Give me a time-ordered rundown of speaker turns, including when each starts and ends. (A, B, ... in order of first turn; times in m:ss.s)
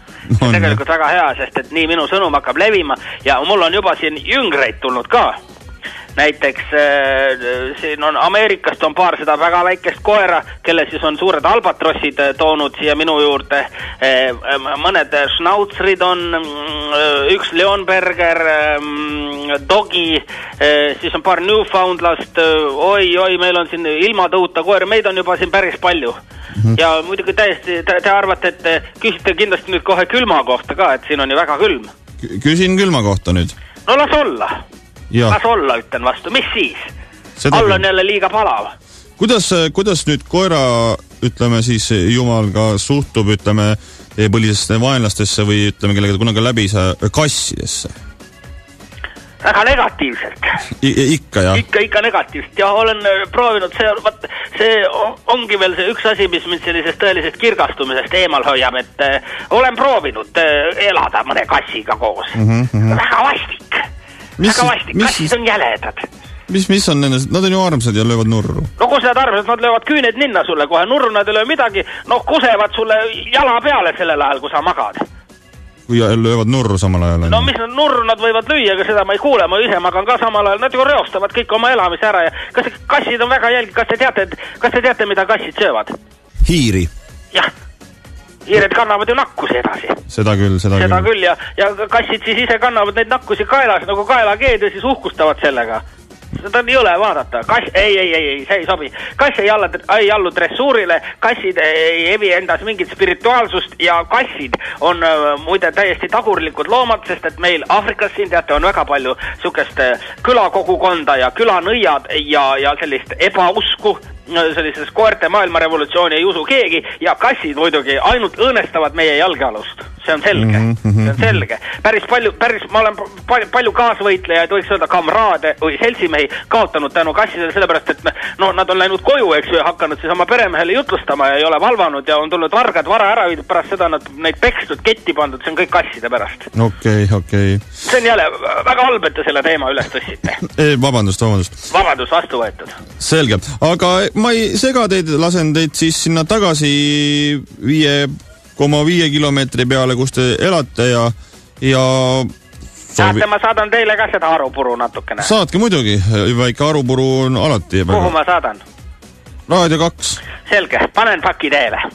0:00.3-0:00.8 A
0:00.4-0:05.4 B
0:06.2-0:26.2 B
0:26.7-0:31.9 B
0:32.2-0:33.5 A
0:33.9-0:34.6 B
0:35.1-0:35.4 A
0:35.2-0:36.9 B
0:37.4-0:37.8 A
0:37.5-0:38.7 B
0:39.2-0:47.9 A
0:49.4-0:50.6 B
0:50.8-0:51.6 A
0:51.5-1:03.8 B
1:02.3-1:03.0 A
1:04.4-1:05.3 A
1:04.4-1:06.1 B
1:06.5-1:08.7 A
1:08.8-1:15.0 B
1:15.9-1:17.5 A
1:17.2-1:25.9 B
1:26.4-1:26.9 A
1:28.4-1:30.0 B
1:30.1-1:31.1 A
1:30.7-1:35.8 B
1:36.3-2:16.5 B
2:00.3-2:01.4 A
2:16.5-2:17.6 A
2:17.8-2:20.4 B
2:20.4-2:21.6 A
2:21.7-2:22.8 B
2:23.0-2:32.3 A
2:32.9-2:33.2 A
2:33.0-2:35.3 B
2:35.2-2:38.1 A
2:37.9-2:38.6 B
2:39.5-2:40.2 A
2:40.4-2:41.8 B